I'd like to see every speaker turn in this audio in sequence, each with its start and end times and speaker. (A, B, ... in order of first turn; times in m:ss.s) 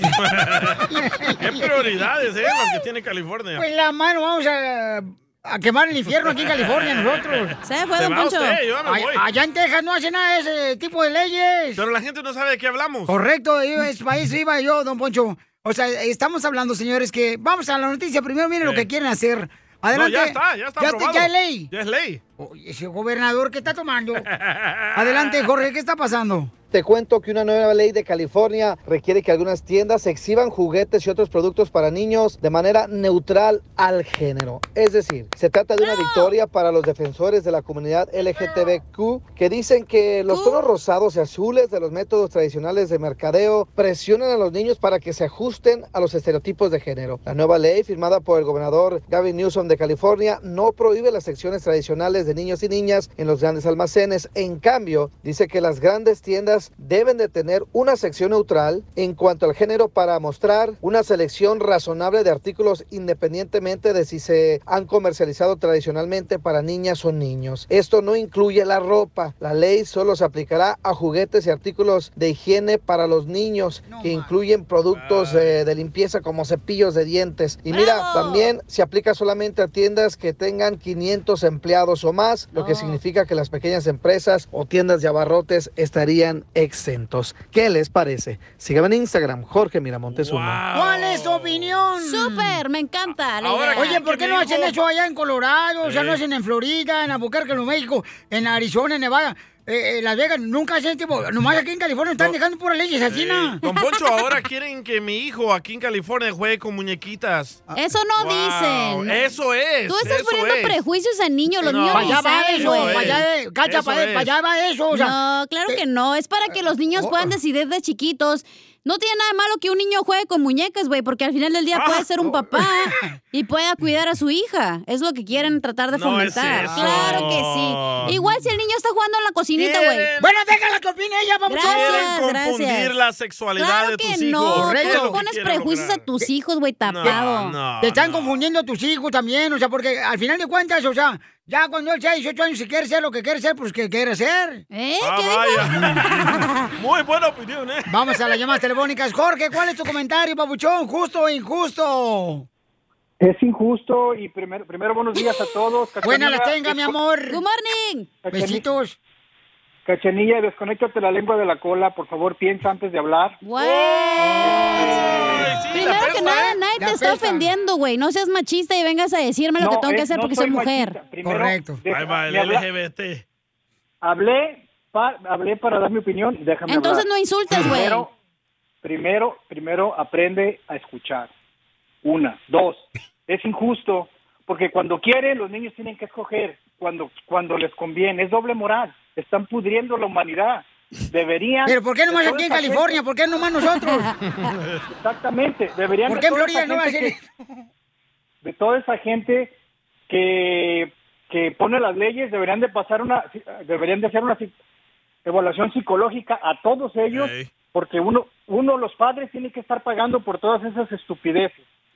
0:00.2-0:00.9 A
0:00.9-0:01.6 B
0:01.4-0:03.6 A
0:03.6-0:07.5 B
0:06.6-0:07.2 A
0:07.6-0:08.6 C
0:08.0-0:09.2 A
0:08.9-0:11.8 B
0:11.8-0:13.1 A
0:13.1-0:21.7 B
0:19.9-0:22.2 A
0:22.4-0:24.3 B
0:24.3-0:25.4 A
0:25.0-0:26.5 B
0:26.7-1:30.6 D
0:35.8-0:36.3 C
0:40.3-0:40.6 C
1:13.9-1:14.3 B
1:14.9-1:15.6 A
1:17.7-1:18.5 C
1:22.6-1:23.0 C
1:30.1-1:31.8 A
1:30.7-1:32.6 B
1:32.0-1:34.1 C
1:33.4-1:34.8 A
1:33.8-1:43.6 B
1:35.8-1:36.2 A
1:43.1-1:50.8 A
1:43.7-1:44.1 C
1:47.8-1:49.2 C
1:49.9-1:53.2 C
1:51.6-1:54.3 A
1:51.6-1:55.2 B
1:54.9-2:10.1 C
1:56.9-1:57.3 B
2:01.7-2:02.2 A
2:05.9-2:08.2 A
2:06.6-2:07.4 B
2:09.6-2:10.4 A
2:10.2-2:12.2 B
2:11.5-2:13.0 C
2:11.6-2:16.1 A
2:13.6-2:17.6 C
2:14.5-2:15.2 B
2:16.8-2:18.3 A
2:17.8-2:24.6 B
2:24.7-2:26.7 C
2:25.0-2:27.9 A
2:27.9-2:32.5 B
2:33.2-2:36.9 E
2:36.0-2:37.4 B
2:37.3-2:38.2 C
2:38.2-2:38.6 E
2:38.3-2:39.0 B
2:39.9-2:43.4 E
2:43.4-2:51.0 C
2:43.6-2:46.6 A
2:45.0-2:45.5 E
2:46.3-2:47.5 B
2:49.6-2:52.7 E
2:51.2-2:51.8 B
2:51.9-2:53.2 A
2:54.0-2:58.1 E
2:56.7-2:58.1 C
2:58.8-3:01.3 E
3:02.0-3:13.0 E
3:11.7-3:14.1 B
3:13.8-3:14.5 C
3:14.4-3:14.8 A
3:14.9-3:17.2 E
3:16.1-3:17.3 B
3:18.4-3:19.5 E
3:20.1-3:24.5 E
3:25.2-3:31.6 E
3:27.1-3:27.5 A